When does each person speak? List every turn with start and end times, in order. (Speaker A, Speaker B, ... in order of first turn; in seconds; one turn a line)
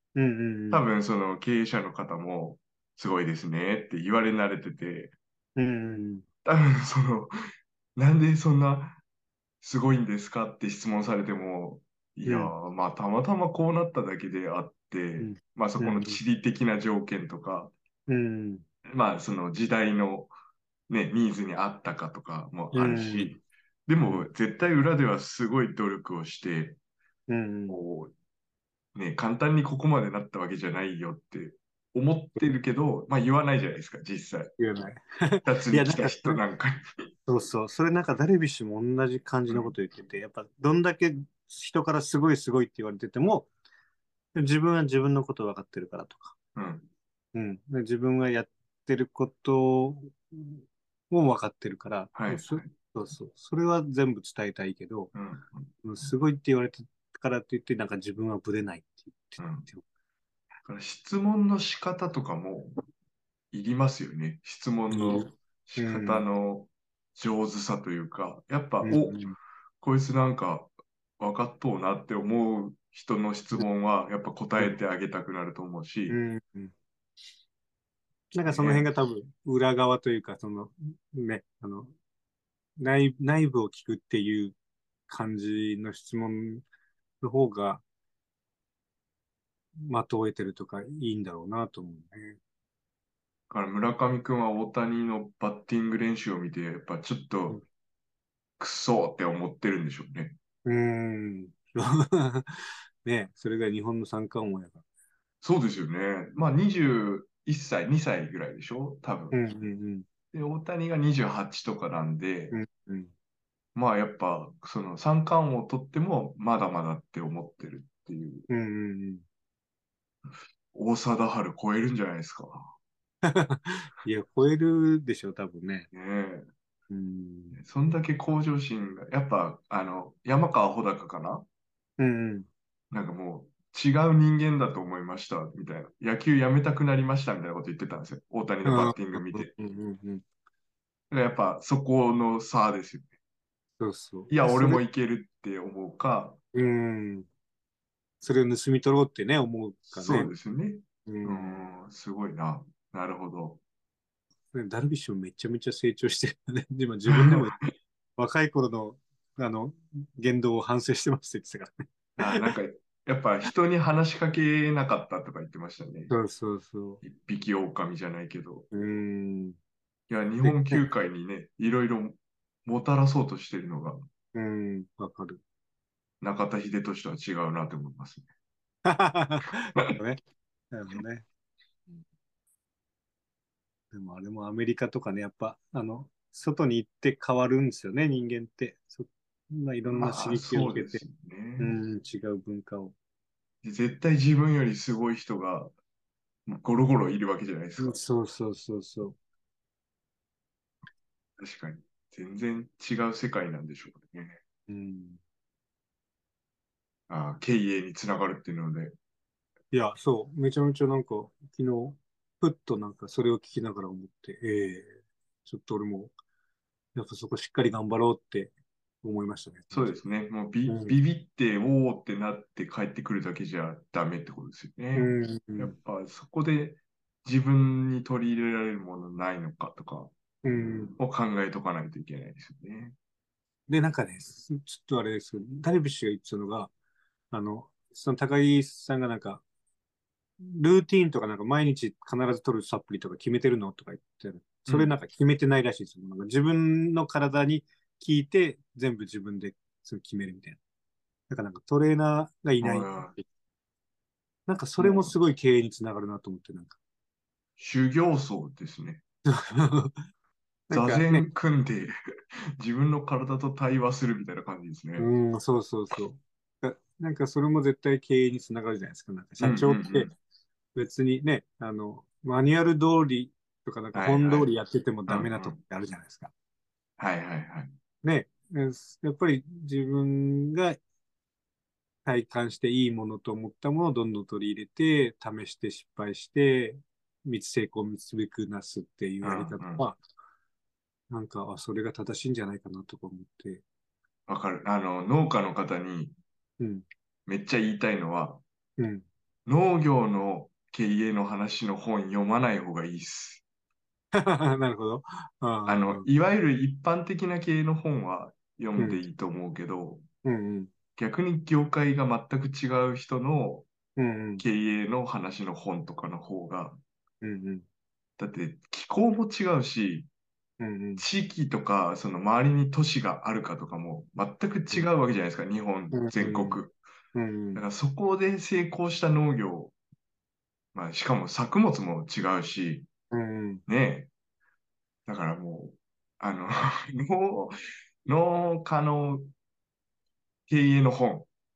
Speaker A: 0.1-0.9
Speaker B: 0.7-5.1
Speaker A: 5.5-6.2
Speaker B: 6.4-7.3
Speaker B: 8.0-9.0
Speaker B: 9.6-17.7
Speaker A: 12.2-12.5
Speaker A: 15.2-16.2
Speaker A: 18.1-18.6
Speaker B: 18.9-20.3
Speaker B: 20.9-26.8
Speaker A: 22.7-23.4
Speaker A: 27.3-27.8
Speaker B: 27.7-28.1
Speaker B: 28.9-34.5
Speaker A: 34.6-36.4
Speaker B: 35.4-37.1
Speaker A: 37.2-43.5
Speaker B: 39.5-39.7
Speaker A: 44.3-46.3
Speaker B: 46.5-46.9
Speaker A: 47.3-55.1
Speaker B: 52.1-52.7
Speaker B: 55.1-55.7
Speaker A: 55.8-59.8
Speaker B: 59.4-59.6
Speaker B: 60.6-62.8
Speaker B: 63.5-69.2
Speaker A: 64.9-66.2
Speaker A: 68.8-69.3
Speaker B: 69.8-76.2
Speaker A: 76.1-76.7
Speaker A: 78.3-81.9
Speaker B: 78.5-78.9
Speaker A: 82.8-84.5
Speaker A: 85.1-86.6
Speaker A: 87.2-87.8
Speaker A: 89.8-92.4
Speaker B: 93.5-97.6
Speaker B: 98.6-100.3
Speaker A: 100.6-104.8
Speaker B: 105.4-109.3
Speaker A: 109.3-110.0
Speaker B: 110.3-112.5
Speaker A: 112.5-113.1
Speaker B: 113.7-118.5
Speaker A: 118.5-119.2
Speaker B: 120.7-122.7
Speaker A: 123.3-125.9
Speaker B: 125.9-126.5
Speaker A: 126.9-127.6
Speaker B: 127.5-131.4
Speaker A: 132.0-132.5
Speaker B: 132.9-139.5
Speaker A: 138.6-140.2
Speaker B: 141.1-143.1
Speaker A: 143.8-144.8
Speaker B: 144.3-146.4
Speaker A: 146.5-147.3
Speaker A: 148.2-150.3
Speaker B: 149.9-153.6
Speaker A: 151.1-151.7
Speaker A: 154.5-157.6
Speaker B: 157.1-157.7
Speaker A: 158.2-162.5
Speaker B: 162.2-166.1
Speaker A: 166.1-167.0
Speaker B: 167.0-168.7
Speaker A: 168.7-169.6
Speaker B: 170.1-174.0
Speaker A: 170.4-170.8
Speaker A: 174.3-175.4
Speaker B: 176.2-178.3
Speaker A: 178.8-180.2
Speaker B: 179.4-180.0
Speaker A: 180.7-181.2
Speaker A: 183.9-191.0
Speaker B: 189.8-191.7
Speaker A: 191.6-192.9
Speaker B: 193.6-195.7
Speaker B: 196.5-198.0
Speaker A: 197.8-199.2
Speaker B: 201.4-204.4
Speaker A: 204.7-205.2
Speaker B: 207.1-208.9
Speaker A: 209.7-216.1
Speaker A: 216.9-219.9
Speaker B: 219.7-230.1
Speaker A: 220.7-221.0
Speaker A: 224.9-225.7
Speaker A: 230.4-230.9
Speaker B: 230.9-232.9
Speaker A: 233.7-236.7
Speaker A: 237.3-239.4
Speaker A: 240.4-250.6
Speaker B: 244.7-244.9
Speaker A: 251.3-253.2
Speaker B: 252.6-253.1
Speaker A: 254.4-256.8
Speaker B: 254.8-255.1
Speaker B: 257.6-259.0
Speaker A: 259.3-260.0
Speaker A: 260.7-261.3
Speaker B: 260.7-265.1
Speaker A: 265.0-270.1
Speaker B: 269.4-270.1
Speaker A: 270.7-276.3
Speaker B: 273.9-274.5
Speaker B: 275.1-275.6
Speaker B: 277.0-277.7
Speaker A: 278.0-280.8
Speaker A: 282.0-290.0
Speaker B: 289.2-289.9
Speaker A: 291.1-293.6
Speaker B: 294.3-296.1
Speaker A: 296.6-296.9
Speaker B: 297.3-298.4
Speaker A: 298.8-299.1
Speaker B: 299.4-303.4
Speaker A: 304.1-306.1
Speaker B: 305.6-310.0
Speaker A: 310.2-310.7
Speaker B: 310.9-313.7
Speaker A: 313.9-314.4
Speaker B: 314.4-316.8
Speaker A: 317.2-317.6
Speaker B: 318.2-320.1
Speaker A: 320.6-321.0
Speaker B: 321.0-326.8
Speaker A: 325.9-326.6
Speaker A: 327.1-327.6
Speaker B: 327.5-329.7
Speaker B: 330.7-332.9
Speaker A: 333.1-333.6
Speaker B: 333.7-334.1
Speaker B: 335.1-339.3
Speaker B: 340.5-341.3